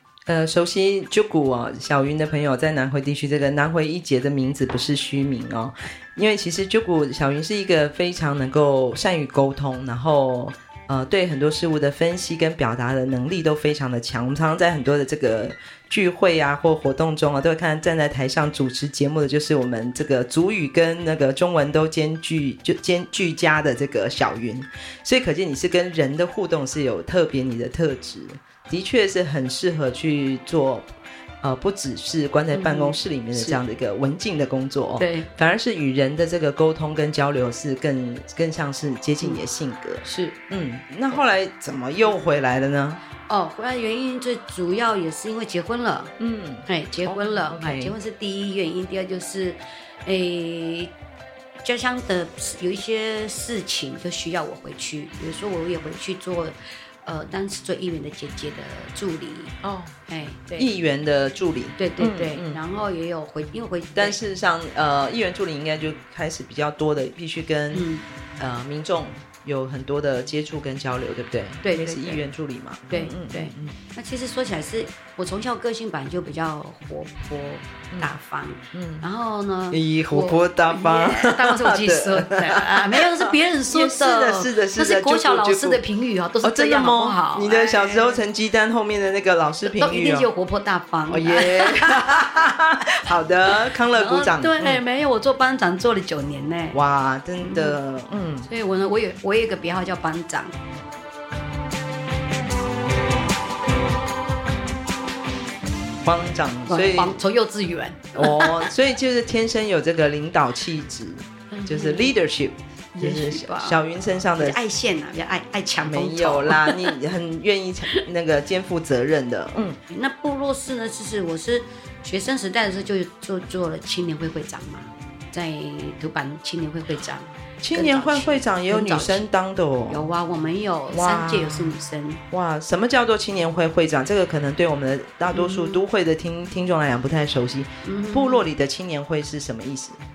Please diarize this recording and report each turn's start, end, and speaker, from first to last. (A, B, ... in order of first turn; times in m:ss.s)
0:00.3-0:43.0 A
0:32.5-0:33.6 B
0:35.0-0:35.3 B
0:40.0-0:40.4 B
0:43.3-0:46.1 B
0:46.2-0:47.9 A
0:46.6-0:50.9 B
0:51.6-0:59.6 B
0:59.6-0:59.9 A
1:00.1-1:00.7 B
1:00.6-1:02.6 A
1:01.8-1:04.2 B
1:03.9-1:13.8 A
1:07.7-1:08.0 B
1:11.6-1:12.2 B
1:12.9-1:28.2 B
1:18.7-1:19.0 A
1:19.7-1:25.8 A
1:26.4-1:30.3 A
1:29.6-1:32.2 B
1:31.1-1:34.8 A
1:33.9-1:36.8 B
1:36.7-1:38.5 A
1:37.4-1:37.7 B
1:38.4-1:40.6 B
1:46.0-1:47.2 A
1:46.7-1:48.7 B
1:48.2-1:54.6 A
1:51.5-1:52.2 B
1:52.9-1:53.8 B
1:54.4-1:56.9 B
1:55.8-1:59.8 A
1:59.8-2:09.3 B
2:07.6-2:10.0 A
2:09.9-2:12.2 B
2:10.9-2:11.8 A
2:12.3-2:20.0 A
2:15.3-2:15.8 B
2:17.8-2:18.4 B